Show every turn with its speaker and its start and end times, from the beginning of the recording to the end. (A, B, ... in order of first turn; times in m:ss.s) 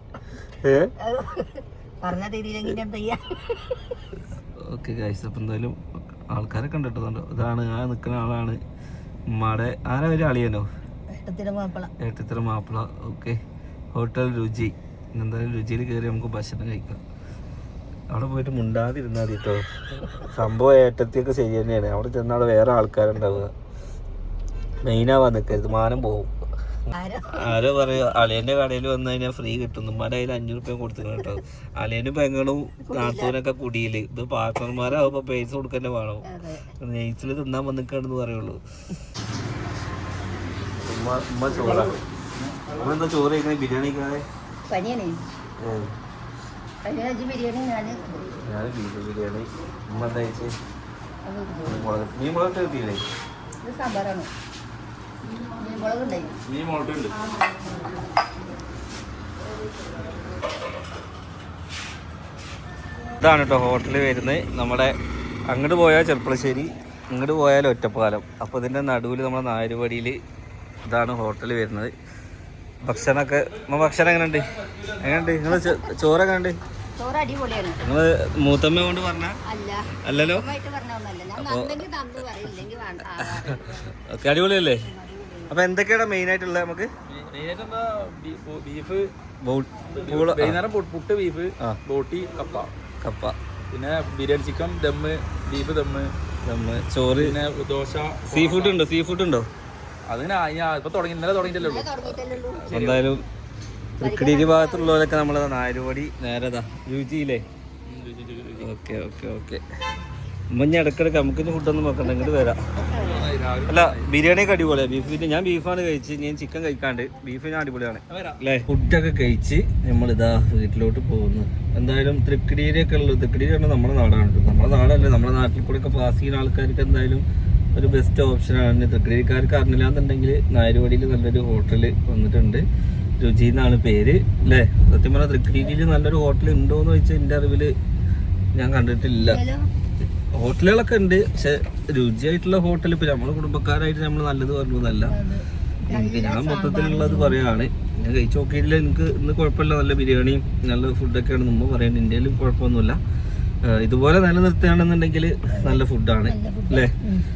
0:00.5-0:00.9 A
0:01.0-0:04.0 B
0:04.6-0:08.6 A
0:09.3-0:10.7 A
0:11.1-0:11.9 B
0:12.0-0:13.4 A
0:13.9-0:17.0 A
0:18.1-0:23.5 A
0:24.8-0:26.3 A
0:26.9-0:27.6 B
0:27.3-0:36.3 A
0:32.8-0:33.3 B
0:36.3-0:36.7 B
0:36.8-0:38.6 A
0:40.8-0:42.0 A
0:41.5-0:42.0 B
0:42.5-0:42.9 C
0:42.7-0:44.2 A
0:44.7-0:45.2 B
0:45.6-0:45.9 A
0:46.8-0:48.4 B
0:48.4-0:50.5 A
0:51.2-0:51.8 B
0:51.6-0:53.0 A
0:53.6-0:54.3 B
0:55.2-0:56.4 B
0:56.5-0:57.2 C
0:57.1-0:58.3 B
0:59.7-1:00.1 B
1:03.2-1:05.0 A
1:05.5-1:10.2 A
1:10.8-1:11.9 A
1:12.8-1:16.6 A
1:15.4-1:15.9 B
1:17.0-1:17.8 B
1:17.8-1:19.4 A
1:19.5-1:23.8 B
1:20.0-1:20.5 A
1:21.4-1:21.8 A
1:23.1-1:24.8 A
1:24.8-1:25.6 B
1:25.5-1:26.9 A
1:27.1-1:29.1 C
1:29.4-1:30.6 A
1:29.9-1:32.7 C
1:33.0-1:33.4 A
1:33.7-1:36.1 C
1:36.4-1:37.4 A
1:37.1-1:38.8 C
1:38.3-1:39.5 A
1:40.1-1:43.1 C
1:41.4-1:42.7 B
1:42.7-1:43.2 A
1:44.0-1:47.4 A
1:44.0-1:45.0 B
1:47.9-1:48.7 C
1:48.6-1:49.6 A
1:50.5-1:53.0 A
1:52.0-1:52.3 B
1:52.9-1:54.7 C
1:52.9-1:53.3 B
1:53.7-2:12.6 A
1:58.1-1:58.4 C
2:13.2-2:17.7 A
2:18.6-2:19.4 A
2:19.2-2:19.7 B
2:20.3-2:25.2 A
2:25.1-2:27.4 B
2:25.9-2:33.0 A
2:33.6-2:37.0 A
2:35.5-2:37.3 B